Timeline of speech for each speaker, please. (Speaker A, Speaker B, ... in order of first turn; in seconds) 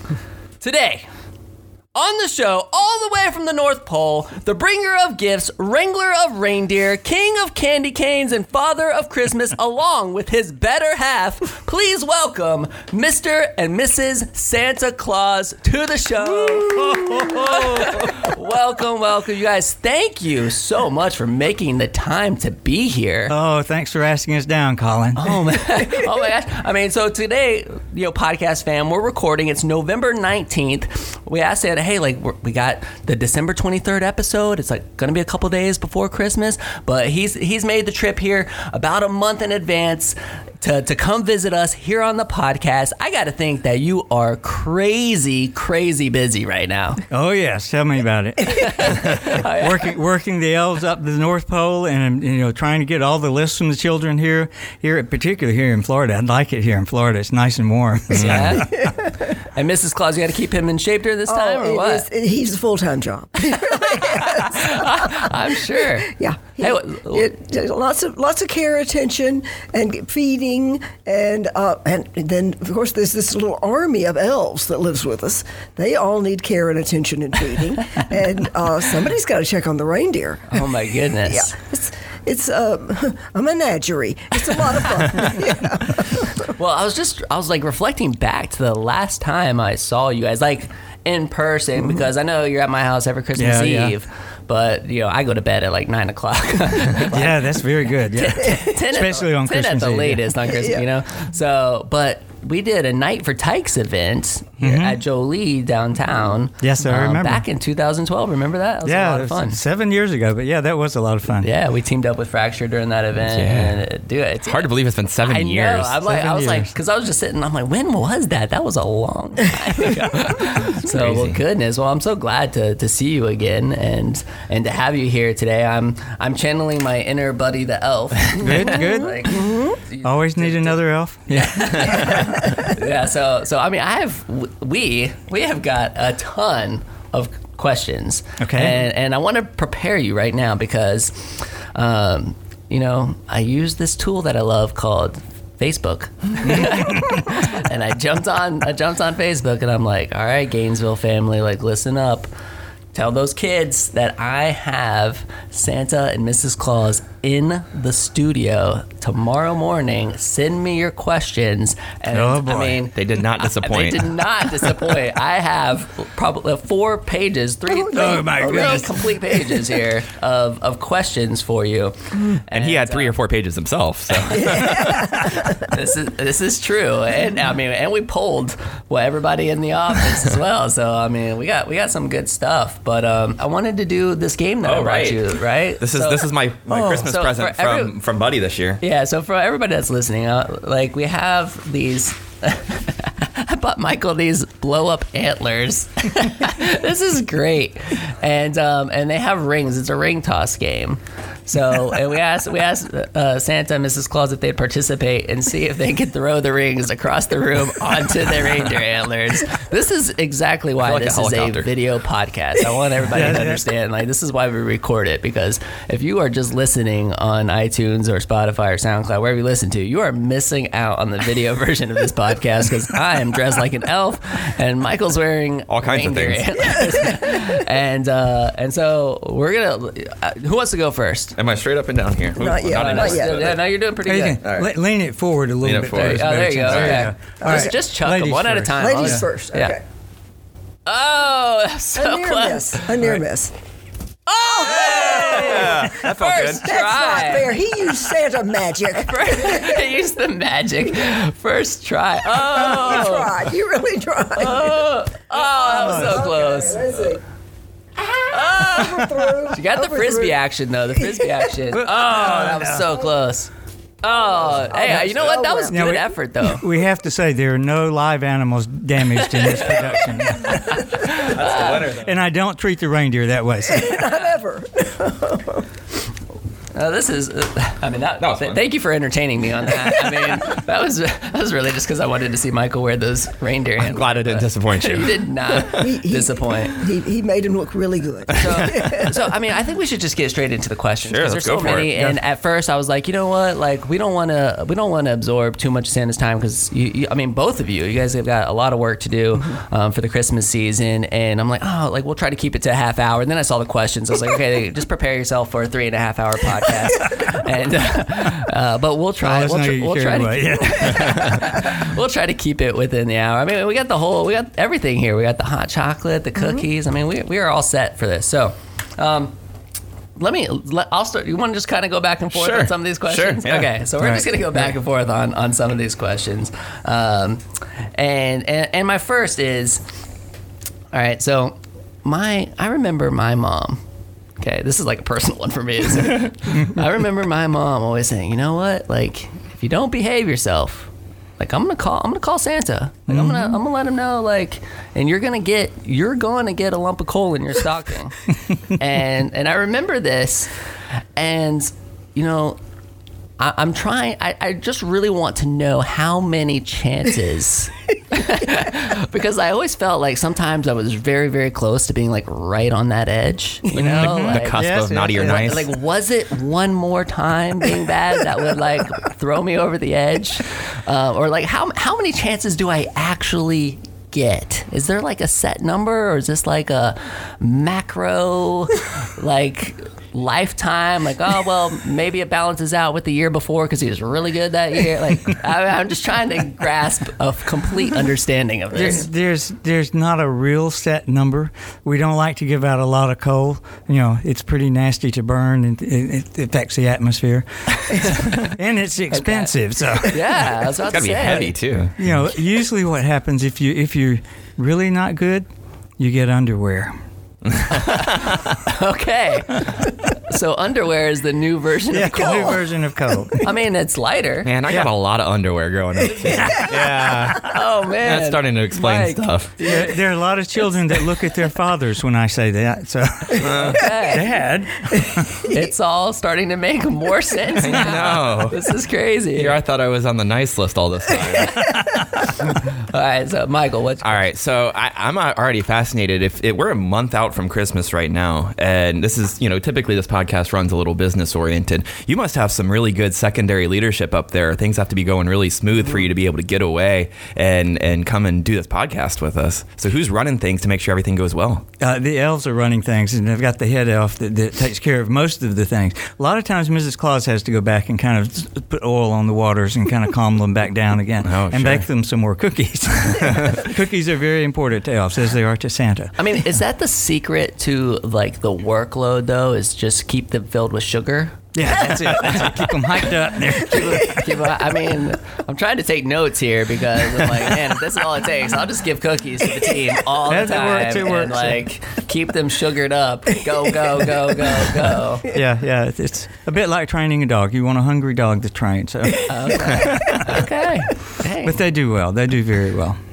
Speaker A: 0.6-1.1, 1.9-23.3, 25.1-47.0, 48.5-49.9, 58.1-62.1, 63.6-67.3, 80.5-81.5, 86.4-109.6, 111.4-152.3, 152.9-173.1, 175.6-187.9, 188.8-231.3, 232.7-234.4, 235.9-239.8, 240.8-242.9, 244.3-247.6, 248.9-253.3, 254.3-257.1, 258.0-266.7, 270.5-271.9, 276.7-286.8, 288.3-319.4, 320.2-329.8, 330.9-333.8, 334.4-352.6, 353.4-389.1, 399.1-401.5, 407.7-412.6, 413.4-414.5, 417.4-420.0, 423.7-424.3, 425.4-429.6, 432.4-434.2, 466.2-472.3, 473.5-485.2, 489.3-491.6
Speaker B: 16.4-18.3, 23.3-25.6, 47.1-58.9, 93.3-94.0, 97.0-100.3, 104.6-105.0, 106.6-107.4, 108.8-111.5, 116.0-116.7, 128.4-132.5, 138.4-138.9, 146.4-147.4, 162.1-162.9, 167.8-169.1, 213.1-213.6, 234.0-239.2, 255.6-256.3, 261.7-262.9, 265.7-271.3, 271.9-274.2, 309.2-311.7, 324.0-324.3, 343.1-343.6, 363.7-365.5, 388.7-400.4, 402.0-405.5, 406.0-407.0, 411.9-413.4, 416.2-417.5, 419.6-425.5, 431.8-432.0, 451.8-466.2, 471.5-474.4, 480.2-481.6, 485.2-490.4, 491.4-493.0
Speaker C: 58.1-58.6, 113.2-113.8, 114.4-116.0, 120.8-121.4, 131.8-132.1, 162.9-164.2, 172.5-175.5, 184.6-188.8, 210.8-211.7, 225.7-227.0, 231.3-233.6, 234.4-234.7, 235.6-237.1, 244.8-246.7, 270.9-272.2, 278.2-278.6, 283.8-286.0, 291.0-291.9, 322.3-323.7, 363.7-365.7, 400.9-402.1, 407.5-408.4, 414.4-419.5, 423.3-423.9, 427.6-428.6, 429.3-431.8, 434.0-451.6, 461.2-461.8, 463.1-463.6
Speaker D: 58.7-59.2, 61.3-80.7, 81.3-86.5, 100.5-100.8, 128.5-129.8, 167.7-169.6, 174.3-175.7, 226.9-227.5, 232.3-233.6, 237.4-237.7, 238.8-239.8, 241.9-243.5, 244.4-249.9, 252.4-254.8, 255.4-257.2, 258.1-260.4, 264.4-265.8, 273.6-275.7, 285.7-289.2